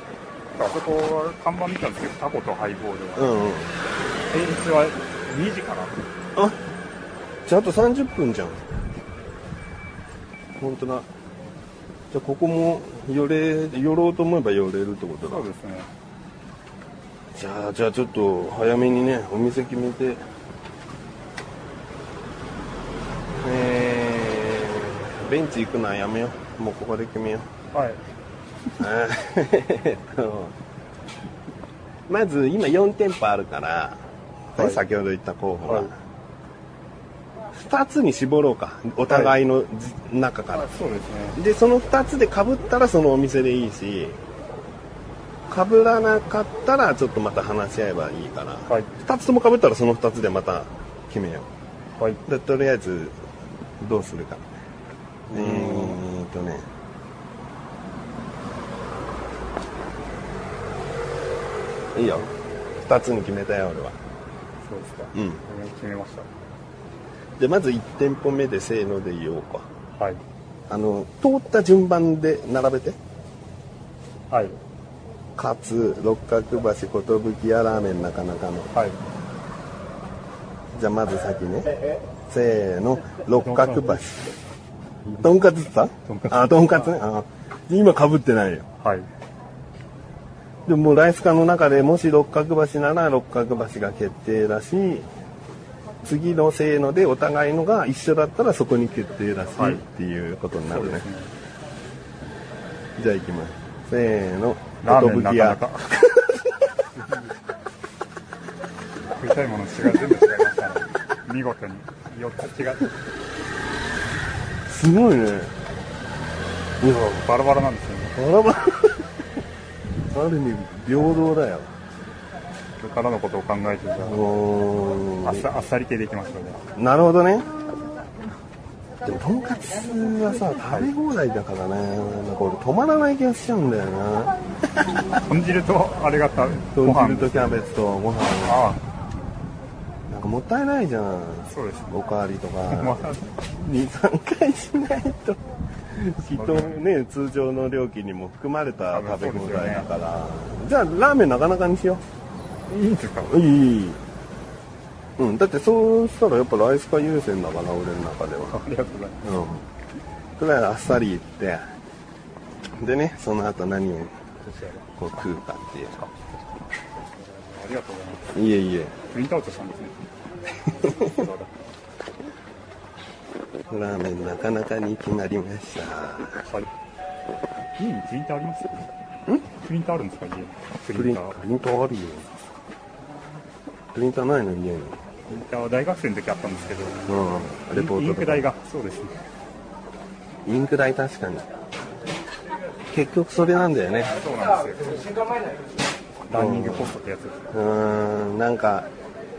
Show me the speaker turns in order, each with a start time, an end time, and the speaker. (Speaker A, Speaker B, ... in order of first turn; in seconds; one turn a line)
Speaker A: 0.5-3.3
Speaker B: 3.1-3.8
Speaker A: 4.3-6.0
Speaker B: 7.5-8.7
Speaker B: 10.6-11.1
Speaker B: 12.1-15.5
Speaker A: 15.2-15.9
Speaker B: 17.3-20.2
Speaker B: 23.4-27.5
Speaker A: 27.7-28.0
Speaker B: 28.8-30.5
Speaker B: 32.1-36.0
Speaker B: 37.5-40.7
Speaker A: 39.1-39.3
Speaker A: 40.5-41.4
Speaker B: 41.3-44.2
Speaker B: 45.5-51.5
Speaker B: 52.2-53.2
Speaker B: 53.8-54.4
Speaker A: 55.3-56.0
Speaker B: 55.3-56.7
Speaker B: 61.9-64.0
Speaker A: 64.6-66.3
Speaker B: 65.1-65.4
Speaker B: 67.4-69.7
Speaker A: 70.0-70.2
Speaker B: 70.7-73.0
Speaker A: 74.3-74.6
Speaker B: 75.3-78.7
Speaker A: 78.7-79.0
Speaker B: 80.7-81.7
Speaker B: 82.3-84.3
Speaker A: 83.4-84.0
Speaker B: 85.2-88.7
Speaker A: 86.1-86.5
Speaker A: 88.8-89.1
Speaker B: 90.7-95.1
Speaker B: 96.0-101.1
Speaker A: 99.5-99.8
Speaker A: 100.7-101.3
Speaker B: 103.0-106.5
Speaker A: 104.8-105.9
Speaker A: 109.2-113.0
Speaker B: 114.7-115.5
Speaker A: 116.8-118.2
Speaker B: 116.8-117.1
Speaker B: 118.1-119.1
Speaker B: 120.1-121.7
Speaker A: 122.8-124.3
Speaker B: 124.0-125.5
Speaker A: 125.2-126.6
Speaker B: 126.7-127.5
Speaker B: 129.0-134.3
Speaker A: 130.6-130.9
Speaker A: 135.2-137.6
Speaker B: 136.7-138.7
Speaker A: 138.4-138.8
Speaker B: 140.1-152.0
Speaker A: 141.5-142.0
Speaker A: 142.7-143.3
Speaker A: 146.3-146.8
Speaker A: 148.9-149.9
Speaker A: 152.7-153.4
Speaker B: 153.2-154.0
Speaker B: 155.2-158.6
Speaker A: 158.5-159.3
Speaker B: 159.2-159.7
Speaker B: 160.4-161.6
Speaker B: 162.7-164.2
Speaker A: 164.4-164.9
Speaker B: 165.0-166.0
Speaker A: 165.9-166.3
Speaker A: 167.1-168.3
Speaker B: 168.3-169.0
Speaker A: 169.1-171.6
Speaker B: 173.7-176.5
Speaker A: 177.8-178.8
Speaker A: 179.6-181.4
Speaker B: 180.9-182.3
Speaker B: 183.9-185.0
Speaker A: 185.3-189.2
Speaker B: 187.1-188.5
Speaker B: 190.4-191.5
Speaker B: 192.9-194.2
Speaker A: 194.1-195.2
Speaker A: 196.3-197.5
Speaker B: 196.3-196.9
Speaker B: 197.5-198.9